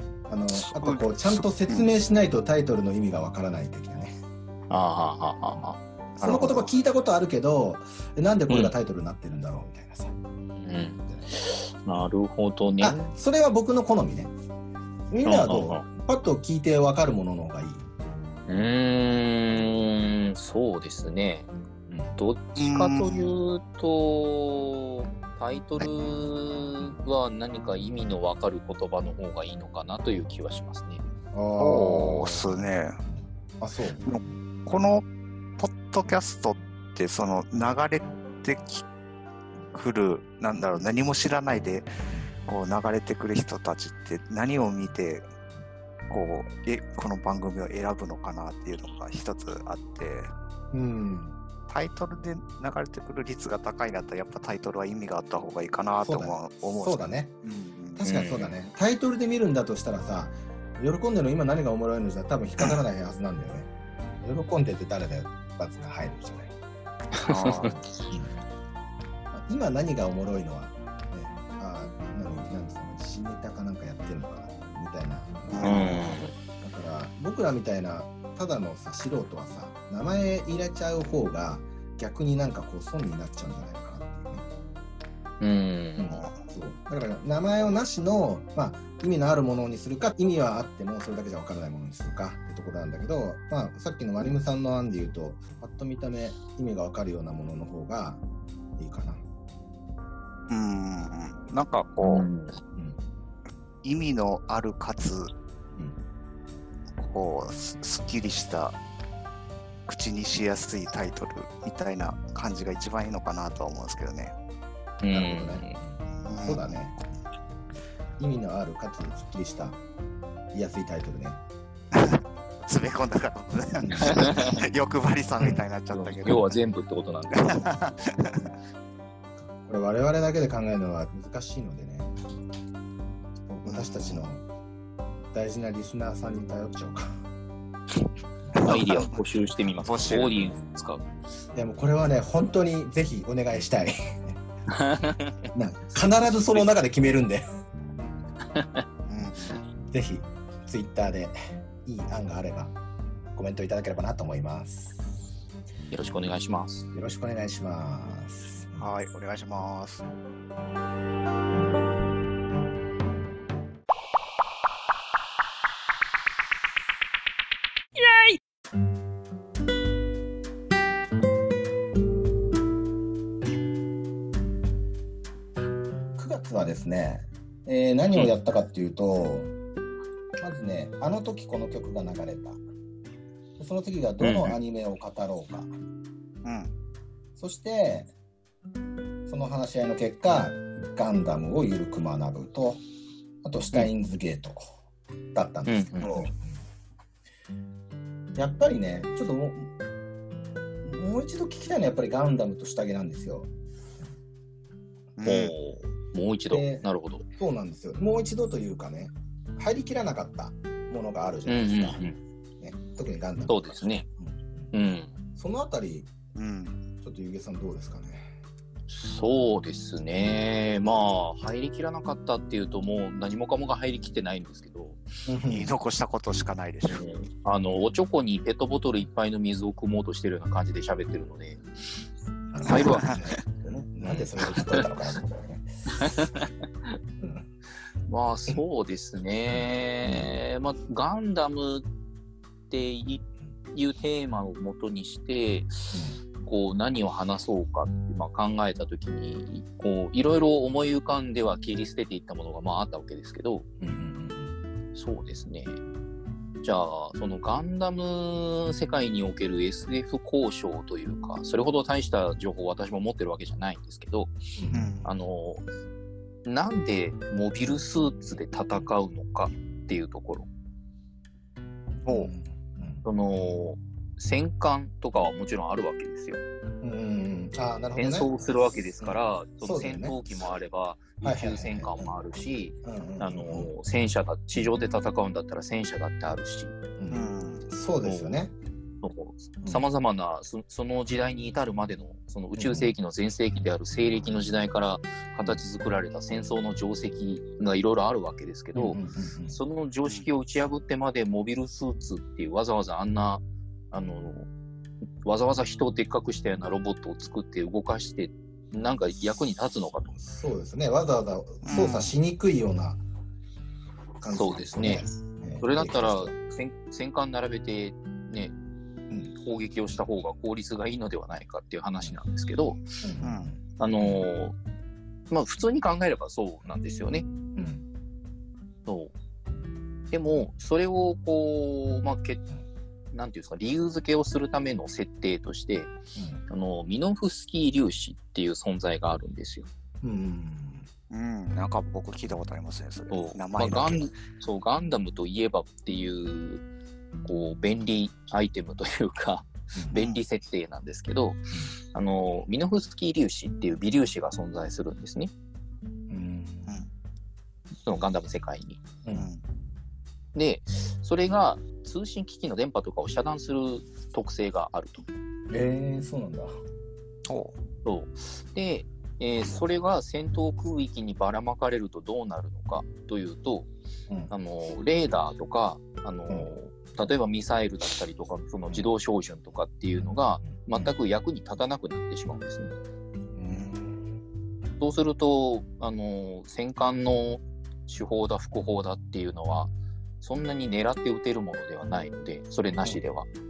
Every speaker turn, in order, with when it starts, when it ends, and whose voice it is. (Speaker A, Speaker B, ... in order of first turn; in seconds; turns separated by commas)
Speaker A: 0.3-4.1, Speaker B: 0.5-1.9, Speaker C: 4.7-5.8, Speaker B: 6.2-6.7, Speaker A: 6.2-10.2, Speaker C: 8.5-8.7, Speaker C: 10.6-13.0, Speaker A: 12.8-14.3, Speaker A: 15.1-17.9, Speaker C: 15.2-15.9, Speaker C: 18.5-21.5, Speaker A: 21.9-22.2, Speaker C: 22.2-31.0, Speaker B: 22.6-23.4, Speaker A: 25.8-26.3, Speaker A: 31.3-32.6, Speaker C: 31.6-32.2, Speaker B: 31.6-33.0, Speaker A: 33.6-34.3, Speaker B: 34.0-35.0, Speaker B: 35.6-38.9, Speaker B: 39.7-41.9, Speaker B: 42.5-45.3, Speaker B: 46.1-50.3, Speaker A: 50.7-51.4, Speaker B: 51.7-58.0, Speaker A: 56.0-57.4, Speaker A: 58.0-63.7, Speaker C: 58.0-58.6, Speaker A: 64.2-66.5, Speaker C: 67.2-67.9, Speaker B: 67.3-67.8, Speaker A: 69.3-84.5, Speaker B: 75.5-76.2, Speaker C: 75.6-76.3, Speaker C: 85.4-86.2, Speaker A: 86.0-98.2, Speaker A: 98.8-99.2, Speaker B: 100.5-102.3, Speaker C: 102.0-102.6, Speaker A: 102.7-103.0, Speaker B: 103.8-105.3, Speaker B: 107.0-108.8, Speaker B: 109.9-114.3, Speaker C: 115.0-115.8, Speaker A: 115.1-117.0, Speaker B: 116.2-116.8, Speaker A: 118.2-119.8, Speaker A: 120.5-121.4, Speaker B: 121.9-126.5, Speaker A: 123.8-124.4, Speaker C: 124.0-124.6, Speaker C: 125.9-127.7, Speaker B: 127.3-128.4, Speaker A: 129.5-132.1, Speaker A: 133.5-134.4, Speaker B: 133.7-134.2, Speaker A: 135.3-137.2, Speaker B: 138.6-139.1, Speaker C: 138.6-141.0, Speaker B: 139.8-140.5, Speaker A: 141.6-144.4, Speaker C: 144.7-145.4, Speaker A: 145.5-147.5, Speaker C: 148.5-148.8, Speaker B: 149.1-149.6, Speaker A: 149.9-152.8, Speaker A: 153.3-155.1, Speaker C: 155.9-156.9, Speaker A: 156.9-158.9, Speaker B: 158.8-160.0, Speaker A: 176.2-179.5, Speaker A: 180.4-182.6, Speaker A: 183.6-185.7, Speaker C: 184.2-184.6, Speaker B: 186.4-186.7, Speaker A: 187.4-188.1, Speaker A: 189.3-192.8, Speaker A: 193.4-194.7, Speaker A: 195.3-196.4, Speaker C: 195.7-196.3, Speaker A: 198.3-199.7, Speaker A: 200.8-203.5, Speaker B: 205.2-205.5, Speaker C: 205.2-207.2, Speaker A: 206.5-212.1, Speaker C: 211.5-212.2, Speaker A: 212.6-214.7, Speaker C: 213.5-214.1, Speaker C: 214.7-215.2, Speaker A: 215.3-216.1, Speaker B: 216.4-216.8, Speaker A: 217.0-218.3, Speaker C: 218.9-225.0, Speaker A: 225.3-225.8, Speaker B: 225.5-227.1, Speaker C: 226.9-231.6, Speaker A: 232.5-236.2, Speaker C: 232.7-233.2, Speaker B: 232.7-233.3, Speaker C: 234.1-234.9, Speaker C: 235.9-236.9, Speaker A: 237.2-237.5, Speaker C: 238.1-241.9, Speaker C: 242.7-253.7, Speaker A: 245.9-246.2, Speaker A: 253.8-254.6, Speaker C: 254.9-255.8, Speaker C: 256.6-264.4, Speaker A: 264.6-265.1, Speaker B: 264.7-265.1, Speaker C: 265.1-265.6, Speaker C: 266.4-270.5, Speaker B: 272.1-272.3, Speaker A: 272.1-273.1, Speaker C: 273.0-276.4, Speaker A: 276.8-280.2, Speaker C: 277.9-286.8, Speaker A: 281.2-282.1, Speaker A: 282.8-283.8, Speaker A: 287.0-288.5, Speaker B: 287.1-287.7, Speaker C: 288.1-288.4, Speaker C: 289.0-304.5, Speaker A: 292.6-292.9, Speaker A: 298.8-299.6, Speaker C: 305.2-310.1, Speaker A: 310.1-313.0, Speaker B: 311.6-312.2, Speaker A: 314.2-316.3, Speaker C: 314.3-315.0, Speaker C: 315.6-318.6, Speaker C: 319.3-322.8, Speaker A: 323.0-324.2, Speaker B: 323.2-323.5, Speaker C: 323.8-324.6, Speaker C: 325.3-327.3, Speaker A: 327.6-327.9, Speaker C: 328.9-329.1, Speaker C: 330.1-332.4, Speaker C: 333.1-335.9, Speaker A: 336.1-336.4, Speaker C: 336.5-339.7, Speaker A: 340.0-340.9, Speaker B: 341.1-344.1, Speaker C: 343.1-346.6, Speaker C: 347.2-355.3, Speaker B: 349.9-350.2, Speaker A: 356.1-356.8, Speaker C: 357.8-358.8, Speaker B: 359.1-359.4, Speaker C: 360.4-365.1, Speaker A: 365.5-366.5, Speaker B: 367.3-367.5, Speaker C: 367.9-373.7, Speaker C: 374.3-382.7, Speaker A: 380.0-380.9, Speaker A: 383.4-384.2, Speaker C: 384.8-393.3